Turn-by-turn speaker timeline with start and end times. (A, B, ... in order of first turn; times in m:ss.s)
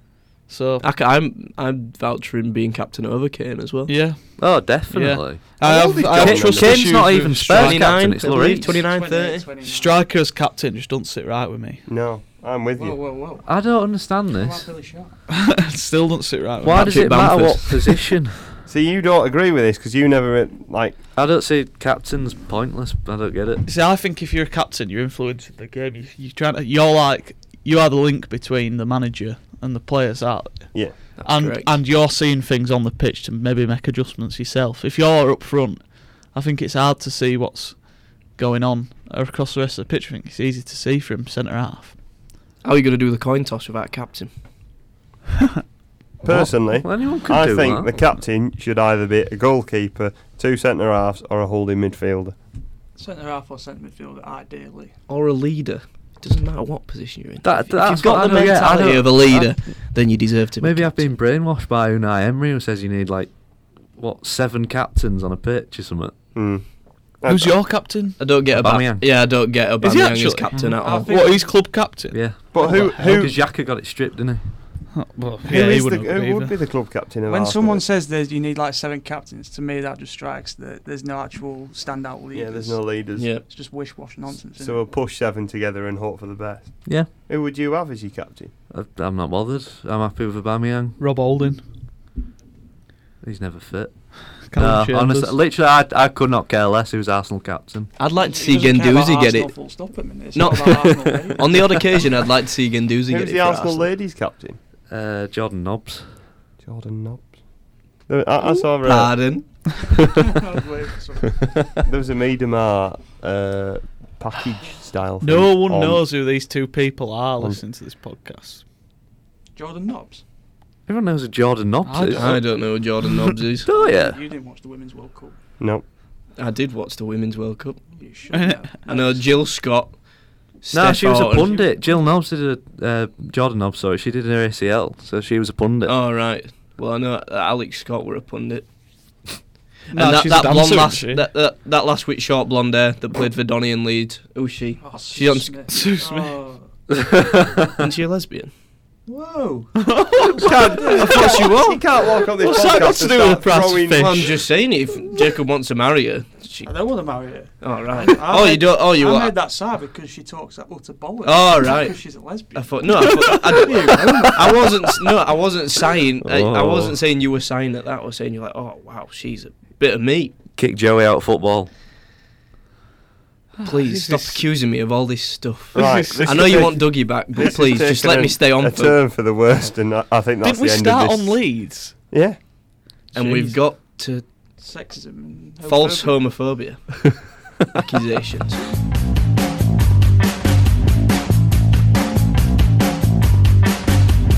0:00.5-0:00.8 A
0:00.8-0:04.1 B
0:03.9-0:08.2 A
0:04.4-0:08.8 C
0:05.6-0:09.5 B
0:06.2-0:06.7 D
0:08.3-0:10.1 E
0:09.6-0:11.8 A
0:11.9-0:13.0 D
0:12.8-0:13.6 E
0:13.4-0:14.7 C
0:14.3-0:15.2 E
0:15.4-0:17.4 A
0:16.6-0:18.6 C
0:16.7-0:18.1 B
0:18.7-0:21.0 D
0:21.2-0:23.6 C
0:23.6-0:42.0 A
0:30.7-0:31.2 D
0:31.2-0:31.8 B
0:42.6-0:44.3 B
0:46.2-0:52.4 D
0:46.2-0:48.0 C
0:53.0-0:54.9 E
0:55.1-1:01.2 B
0:57.4-1:06.2 C
1:06.3-1:07.7 D
1:07.2-1:08.4 A
1:08.2-1:11.1 B
1:08.5-1:09.1 C
1:09.8-1:12.7 A
1:10.8-1:11.7 E
1:12.1-1:14.5 C
1:12.5-1:13.4 D
1:14.9-1:16.6 A
1:15.4-1:17.8 D
1:17.3-1:24.9 E
1:22.3-1:23.5 D
1:23.2-1:23.4 B
1:24.6-1:28.5 D
1:28.7-1:31.0 C
1:31.0-1:31.6 A
1:33.2-1:37.9 C
1:34.4-1:35.4 A
1:38.0-1:43.9 B
1:38.1-1:42.0 E
1:43.1-1:44.6 D
1:44.9-1:46.2 C
1:46.6-1:49.5 D
1:48.8-1:49.8 B
1:50.3-1:51.5 E
1:51.8-1:56.3 D
1:55.2-1:58.6 A
1:59.6-2:00.2 E
2:00.9-2:02.4 C
2:01.8-2:03.2 A
2:02.1-2:03.7 B
2:03.6-2:04.2 C
2:03.7-2:05.4 E
2:05.6-2:05.9 D
2:06.3-2:08.0 B
2:07.9-2:09.3 E
2:08.3-2:08.6 A
2:08.9-2:11.6 B
2:10.7-2:16.0 C
2:11.6-2:12.0 E
2:15.8-2:25.6 B
2:19.9-2:21.3 A
2:24.8-2:26.7 E
2:25.7-2:26.5 A
2:26.9-2:27.7 C
2:27.8-2:28.5 B
2:29.1-2:31.3 E
2:29.8-2:31.8 A
2:30.5-2:34.3 D
2:32.3-2:34.3 A
2:34.0-2:37.0 B
2:36.6-2:44.6 E
2:37.6-2:39.4 B
2:41.2-2:50.4 B
2:46.2-2:47.0 C
2:50.6-2:51.7 C
2:53.6-2:54.4 A
2:53.6-2:59.1 B
2:55.8-2:56.8 A
2:55.8-3:02.4 D
3:00.4-3:02.1 A
3:03.1-3:03.6 A
3:03.1-3:04.3 B
3:04.6-3:06.2 E
3:05.6-3:08.7 B